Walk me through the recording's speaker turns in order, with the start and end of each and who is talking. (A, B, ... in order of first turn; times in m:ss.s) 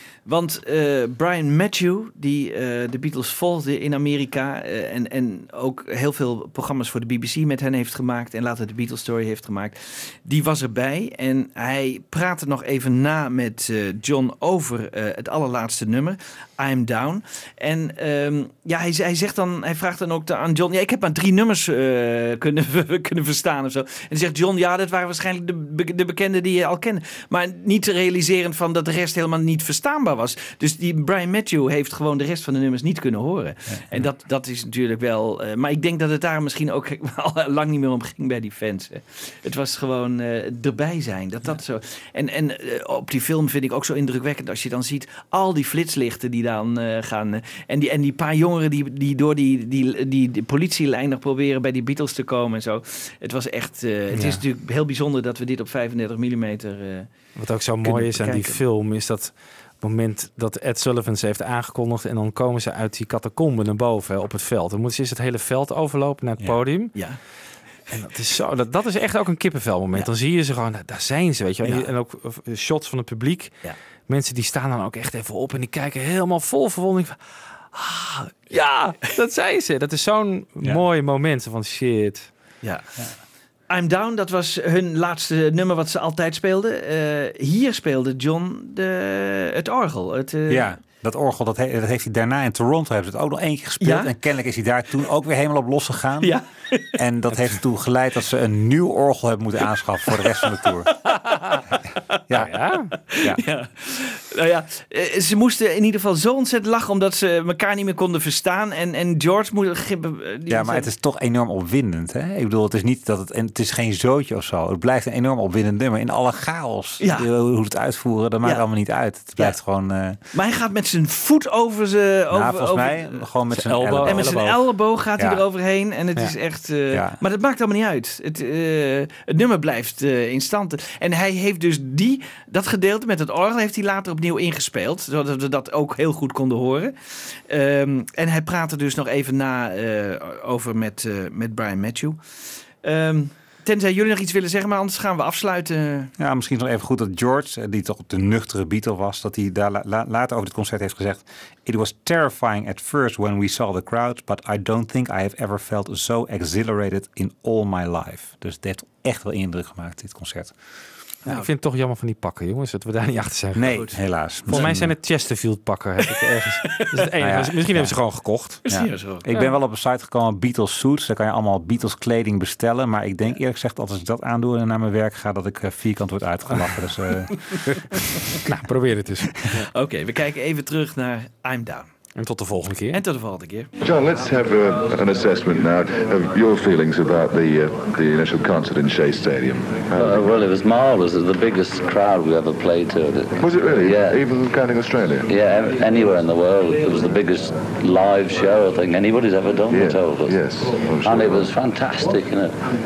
0:00.2-0:57.1 A
0:54.1-0:54.4 B
0:57.4-1:07.0 B
0:57.8-0:58.6 A
1:06.9-1:07.2 A
1:07.9-1:17.2 B
1:11.6-1:11.9 A
1:17.7-1:19.1 A
1:19.0-1:22.3 B
1:22.6-1:22.9 A
1:23.7-1:30.7 A
1:30.5-1:36.4 C
1:33.8-1:34.1 A
1:36.2-1:36.9 A
1:36.9-1:40.9 C
1:40.3-1:41.6 A
1:42.3-1:42.5 C
1:42.3-1:42.9 B
1:43.1-1:50.9 A
1:50.5-2:00.2 C
1:57.0-1:57.3 A
2:00.3-2:03.2 A
2:02.3-2:04.4 C
2:03.5-2:04.6 B
2:04.0-2:22.2 A
2:06.9-2:07.2 C
2:22.8-2:26.1 A
2:26.2-2:40.5 C
2:41.2-2:48.6 B
2:43.5-2:45.0 C
2:43.7-2:44.8 A
2:47.2-2:47.9 C
2:48.6-2:58.0 C
2:48.7-2:49.3 A
2:57.3-2:57.8 A
2:58.4-2:59.6 B
2:59.7-3:01.9 A
3:02.2-3:03.0 B
3:02.9-3:03.7 A
3:03.8-3:10.4 D
3:10.0-3:14.2 E
3:13.4-3:15.3 D
3:15.3-3:20.4 E
3:19.7-3:21.5 D
3:21.0-3:22.5 E